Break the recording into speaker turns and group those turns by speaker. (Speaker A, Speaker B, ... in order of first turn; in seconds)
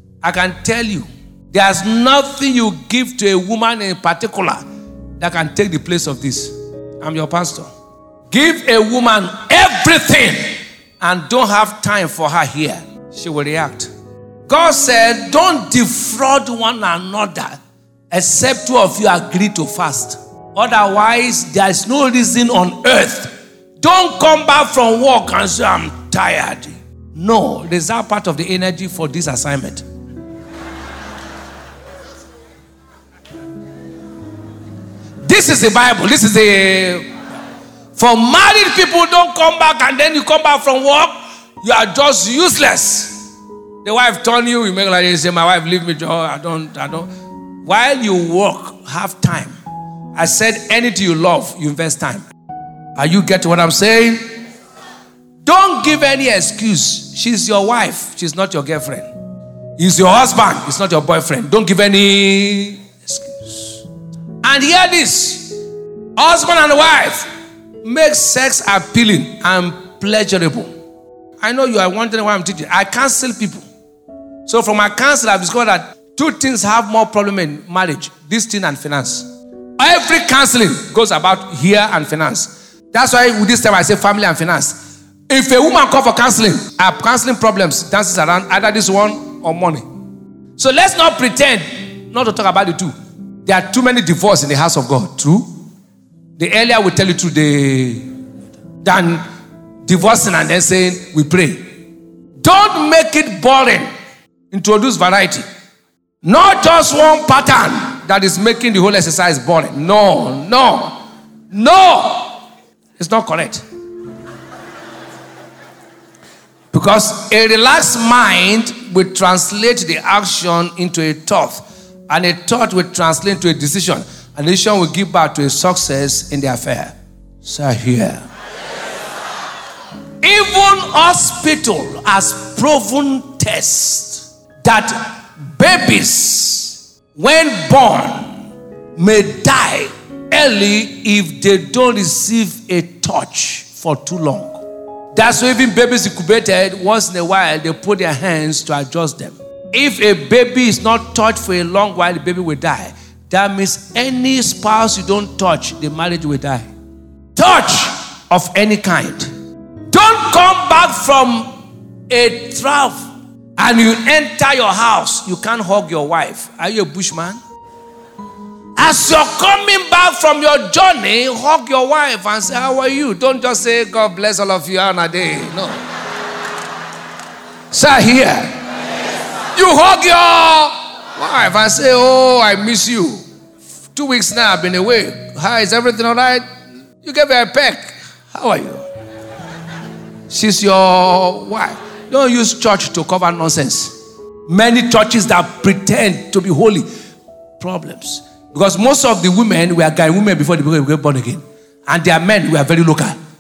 Speaker A: 0.2-4.6, 5.2-7.7, 8.3-10.4, 11.0-13.9, 14.5-29.9, 35.2-37.1, 38.0-43.3, 43.8-47.1, 47.6-49.6, 50.1-52.3, 53.0-54.3, 55.4-59.1, 59.8-63.8, 64.4-65.6, 66.2-67.3, 67.8-70.7, 71.4-73.7, 74.5-84.8, 85.3-89.9, 90.6-92.9, 93.5-95.5, 96.4-98.1, 98.8-99.2, 99.8-101.7, 102.4-103.9, 104.5-105.5, 106.2-112.4, 113.0-113.7, 116.7-128.2, 130.2-138.4, 138.9-156.7, 157.3-159.3, 159.9-161.6, 162.1-163.1, 163.6-167.4, 168.8-175.8, 177.7-178.6, 179.5-183.2, 183.9-186.4, 187.0-188.8, 190.3-193.9, 194.5-196.9, 197.6-203.2